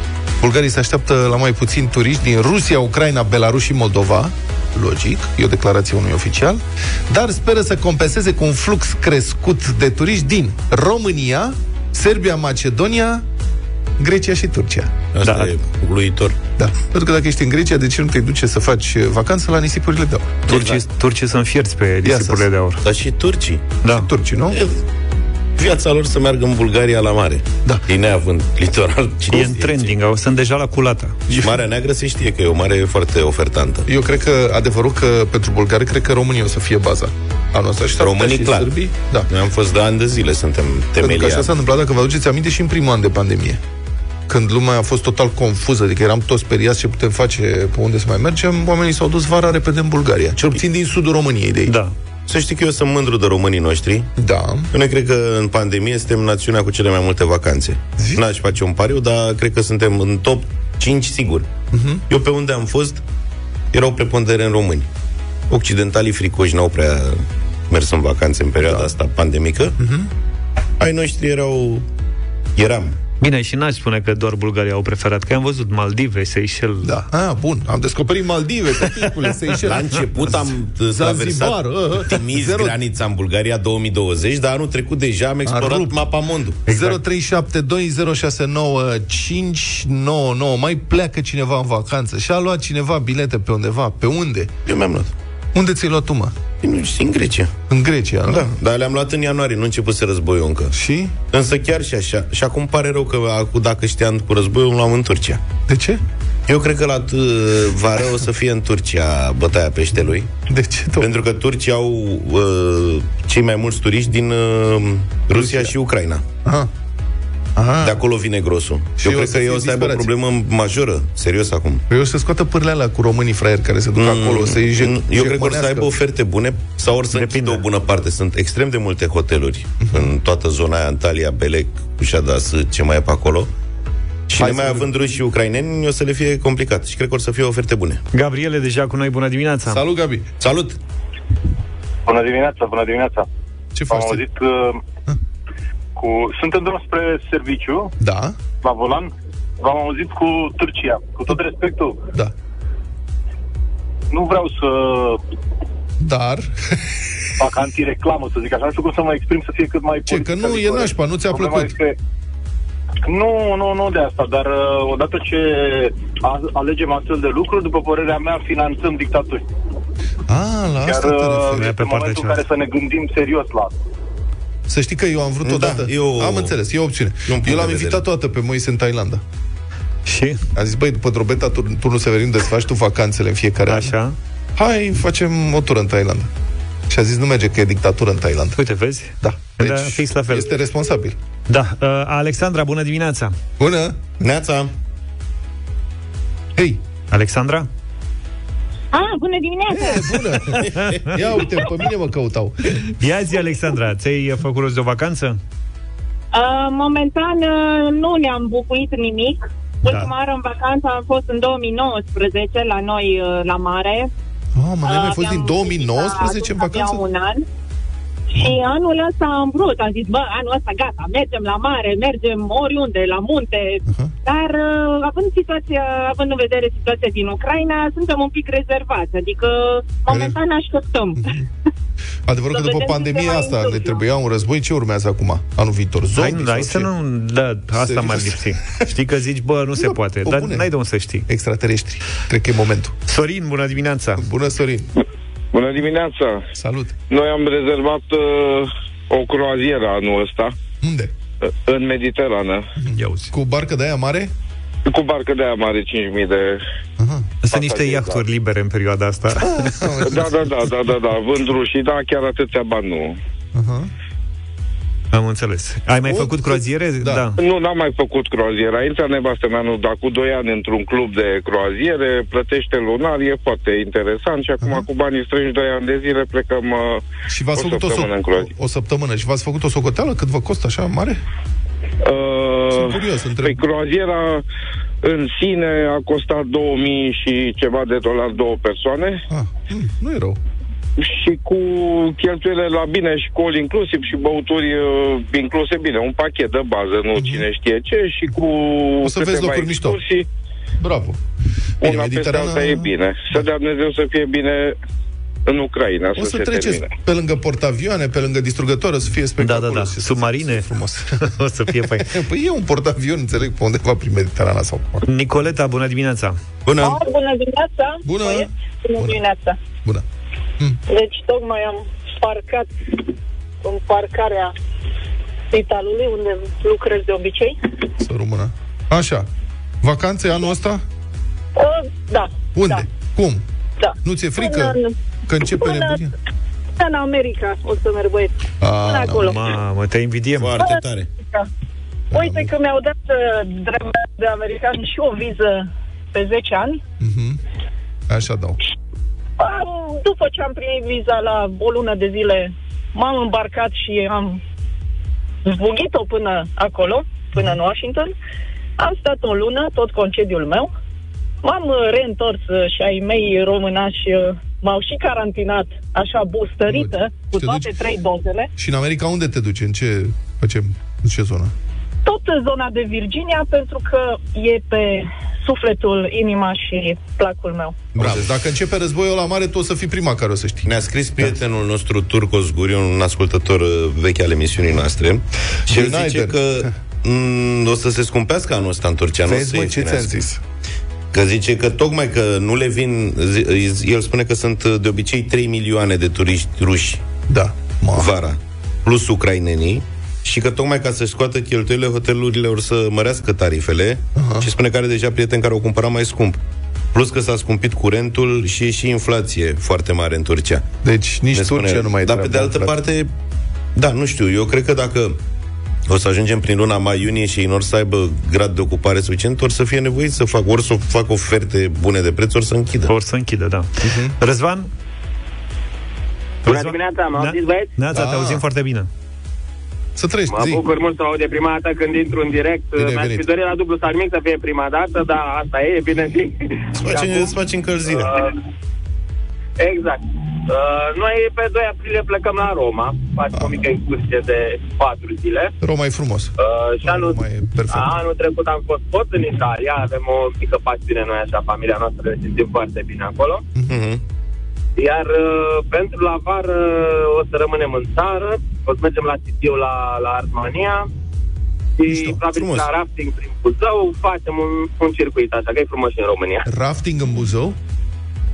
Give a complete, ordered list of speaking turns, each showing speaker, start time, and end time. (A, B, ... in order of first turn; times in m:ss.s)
0:00.4-0:13.2 A
0:14.0-0:15.0 A
0:15.1-0:16.4 B
0:15.2-0:15.5 C
0:16.6-0:20.5 A
0:20.5-0:20.8 B
0:20.5-0:22.8 C
0:22.0-0:22.5 A
0:22.8-0:23.7 B
0:23.8-0:24.1 C
0:23.9-0:24.6 A
0:24.5-0:24.8 B
0:25.6-0:29.9 B
0:29.3-0:31.2 C
0:31.3-0:33.9 B
0:33.9-0:39.3 A
0:38.0-0:38.7 B
0:39.3-0:41.5 B
0:41.0-0:43.6 A
0:44.3-0:51.8 A
0:51.7-0:51.9 C
0:52.3-0:54.1 B
0:54.2-0:54.7 A
0:54.7-1:01.5 B
0:58.0-0:58.2 A
1:01.7-1:02.0 A
1:02.1-1:03.0 B
1:03.7-1:04.9 B
1:05.5-1:09.7 B
1:08.6-1:08.9 A
1:09.8-1:10.1 A
1:10.8-1:11.8 B
1:12.6-1:13.0 B
1:13.2-1:16.9 C
1:16.8-1:20.0 A
1:19.6-1:26.6 B
1:20.9-1:22.8 A
1:25.4-1:26.0 A
1:26.6-1:34.5 A
1:26.7-1:27.0 C
1:34.6-1:35.1 B
1:35.5-1:36.4 A
1:36.6-1:37.5 B
1:37.7-1:38.4 A
1:38.2-1:40.7 B
1:40.7-1:41.2 A
1:41.3-1:45.4 B
1:45.7-1:46.0 A
1:46.5-1:50.3 B
1:50.5-1:51.1 A
1:51.0-1:56.2 B
1:55.3-1:55.7 A
1:56.4-1:56.7 A
1:57.6-1:58.0 A
1:57.8-2:01.8 B
1:59.0-2:00.1 A
2:01.9-2:05.9 A
2:04.0-2:13.5 B
2:07.1-2:07.6 C
2:09.8-2:10.1 A
2:14.3-2:18.0 B
2:14.3-2:14.9 A
2:18.1-2:19.8 C
2:19.7-2:20.3 A
2:20.4-2:20.8 B
2:22.0-2:23.3 D
2:23.7-2:24.2 A
2:23.9-2:24.8 D
2:26.0-2:27.9 D
2:28.0-2:28.4 A
2:28.6-2:32.0 D
2:34.1-2:35.2 D
2:36.0-2:36.8 A
2:37.4-2:42.0 D
2:40.1-2:41.7 A
2:43.0-2:49.4 D
2:50.3-2:51.7 A
2:50.8-2:53.7 D
2:51.5-2:52.4 C
2:54.7-2:59.2 A
2:55.4-2:56.5 B
2:57.3-2:58.0 B
3:00.0-3:00.4 C
3:00.5-3:03.9 A
3:03.7-3:04.2 C
3:04.6-3:06.3 A
3:06.9-3:08.6 A
3:08.6-3:10.5 C
3:09.2-3:11.2 A
3:11.5-3:13.4 C
3:13.6-3:14.1 A
3:14.2-3:14.7 B
3:16.6-3:16.8 A
3:17.1-3:17.7 C
3:18.9-3:20.4 E
3:19.7-3:22.8 A
3:20.5-3:21.2 C
3:20.7-3:21.2 B
3:23.0-3:25.4 C
3:26.3-3:34.1 E
3:34.5-3:37.0 A
3:34.8-3:37.4 E
3:38.3-3:51.3 E
3:43.9-3:44.1 A
3:50.1-3:50.4 A
3:51.2-3:51.5 A
3:52.3-3:56.9 A
3:52.5-3:54.0 E
3:56.2-4:01.2 C
3:57.8-3:58.8 A
3:59.8-4:00.7 A
4:01.3-4:03.0 A
4:03.1-4:04.2 C
4:04.2-4:04.9 A
4:05.5-4:06.4 F
4:06.5-4:06.9 A
4:07.1-4:10.5 F
4:10.8-4:11.1 A
4:11.4-4:12.6 F
4:12.8-4:14.3 A
4:12.9-4:13.3 C
4:14.9-4:16.6 F
4:17.0-4:17.3 A
4:17.4-4:20.1 C
4:17.5-4:18.2 F
4:19.3-4:20.7 A
4:20.0-4:23.2 F
4:23.5-4:23.9 A
4:25.1-4:27.4 C
4:26.0-4:27.2 A
4:27.4-4:37.0 F
4:34.6-4:34.8 A
4:37.3-4:41.2 A
4:37.5-4:38.5 F
4:42.0-4:44.4 F
4:42.7-4:43.6 A
4:45.0-4:49.2 F
4:49.3-4:50.4 A
4:51.0-5:00.2 F
4:57.1-4:57.4 A
4:59.0-5:00.0 A
5:00.8-5:01.2 A
5:01.8-5:03.4 A
5:01.8-5:04.8 F
5:05.4-5:06.9 F
5:06.1-5:11.1 A
5:09.4-5:10.7 C
5:11.2-5:12.1 C
5:11.8-5:15.0 A
5:15.0-5:16.4 C
5:16.6-5:17.0 B
5:16.8-5:19.6 G
5:18.0-5:19.2 A
5:20.9-5:23.0 G
5:23.6-5:24.5 G
5:25.5-5:27.6 G
5:28.0-5:29.3 A
5:29.8-5:30.8 A
5:31.6-5:32.8 G
5:32.5-5:33.4 A
5:33.8-5:34.9 G
5:34.0-5:36.1 A
5:35.5-5:36.0 G
5:36.8-5:38.3 G
5:38.6-5:39.4 A
5:38.8-5:39.4 G
5:39.1-5:40.5 C
5:40.4-5:41.1 B
5:40.6-5:41.5 G
5:42.1-5:42.5 A
5:42.1-5:46.8 G
5:47.0-5:47.4 A
5:48.1-5:48.6 A
5:49.4-5:54.4 G
5:55.4-5:58.1 G
5:58.8-6:00.7 G
6:01.4-6:08.5 G
6:06.7-6:07.7 A
6:08.6-6:11.5 A
6:12.0-6:17.9 G
6:18.0-6:18.3 B
6:18.0-6:21.3 A
6:20.6-6:30.2 B
6:25.7-6:26.7 A
6:29.2-6:30.4 A
6:31.1-6:37.0 B
6:37.3-6:38.1 A
6:37.9-6:46.4 B
6:44.1-6:44.5 A
6:46.9-6:50.6 B
6:50.8-6:52.8 A
6:51.3-6:53.1 B
6:53.8-6:55.2 B
6:55.9-7:02.9 B
7:02.9-7:04.7 C
7:03.8-7:04.1 A
7:06.4-7:07.7 H
7:06.4-7:08.9 C
7:07.9-7:08.4 A
7:10.0-7:10.6 A
7:10.3-7:17.4 H
7:12.8-7:13.3 A
7:16.8-7:18.2 B
7:17.9-7:18.4 H
7:19.6-7:25.5 H
7:25.6-7:28.0 A
7:26.4-7:33.4 H
7:33.7-7:34.0 B
7:34.8-7:40.9 H
7:41.8-7:46.4 H
7:41.8-7:42.2 A
7:42.3-7:42.7 B
7:46.5-7:47.6 A